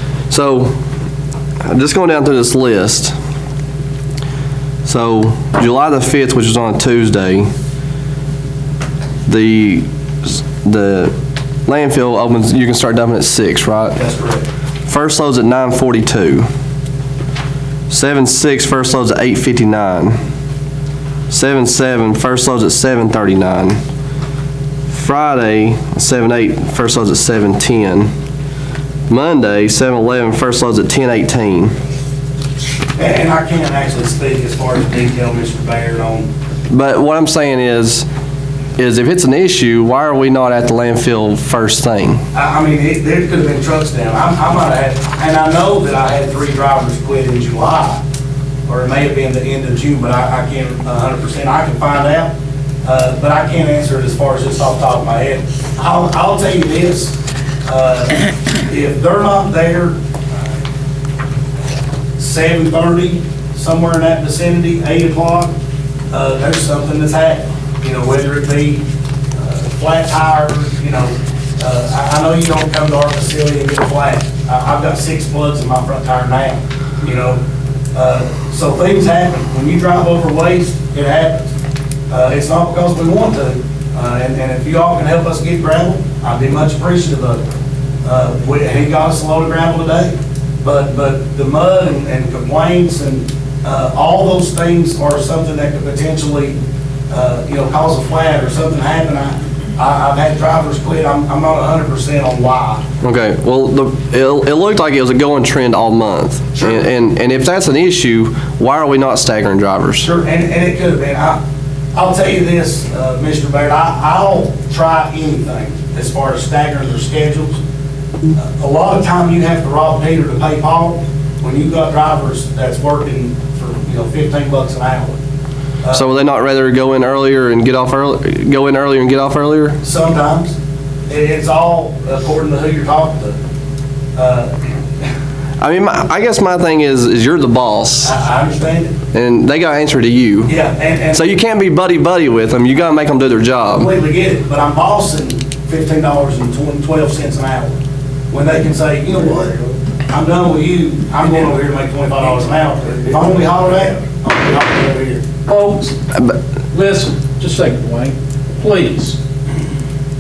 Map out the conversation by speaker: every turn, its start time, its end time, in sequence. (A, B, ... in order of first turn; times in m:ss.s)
0:00.3-0:00.8 A
0:01.6-0:03.2 A
0:04.8-0:07.5 A
0:09.3-0:11.2 A
0:11.7-0:14.0 A
0:14.0-0:14.4 B
0:14.9-0:16.5 A
0:17.9-0:20.2 A
0:21.3-0:23.8 A
0:24.9-0:28.1 A
0:29.1-0:31.7 A
0:33.0-0:36.3 B
0:36.7-0:38.1 A
0:38.8-0:42.2 A
0:42.3-0:48.0 B
0:48.7-0:52.3 B
0:52.8-1:00.6 B
1:02.2-1:05.5 B
1:06.1-1:08.8 B
1:09.4-1:17.4 B
1:17.9-1:21.5 B
1:22.1-1:27.4 B
1:28.0-1:36.6 B
1:37.1-1:42.8 B
1:43.0-1:50.1 A
1:46.6-1:46.9 B
1:50.0-1:51.4 B
1:52.0-1:57.6 B
1:58.4-2:05.2 B
2:05.8-2:06.1 B
2:05.9-2:09.8 A
2:09.8-2:10.6 B
2:11.1-2:13.4 B
2:14.2-2:14.5 B
2:15.6-2:18.1 A
2:18.0-2:18.9 B
2:19.1-2:20.5 A
2:20.5-2:21.3 B
2:21.1-2:23.9 A
2:23.7-2:27.8 B
2:28.3-2:29.6 B
2:30.1-2:35.4 B
2:35.5-2:35.9 C
2:36.7-2:39.2 C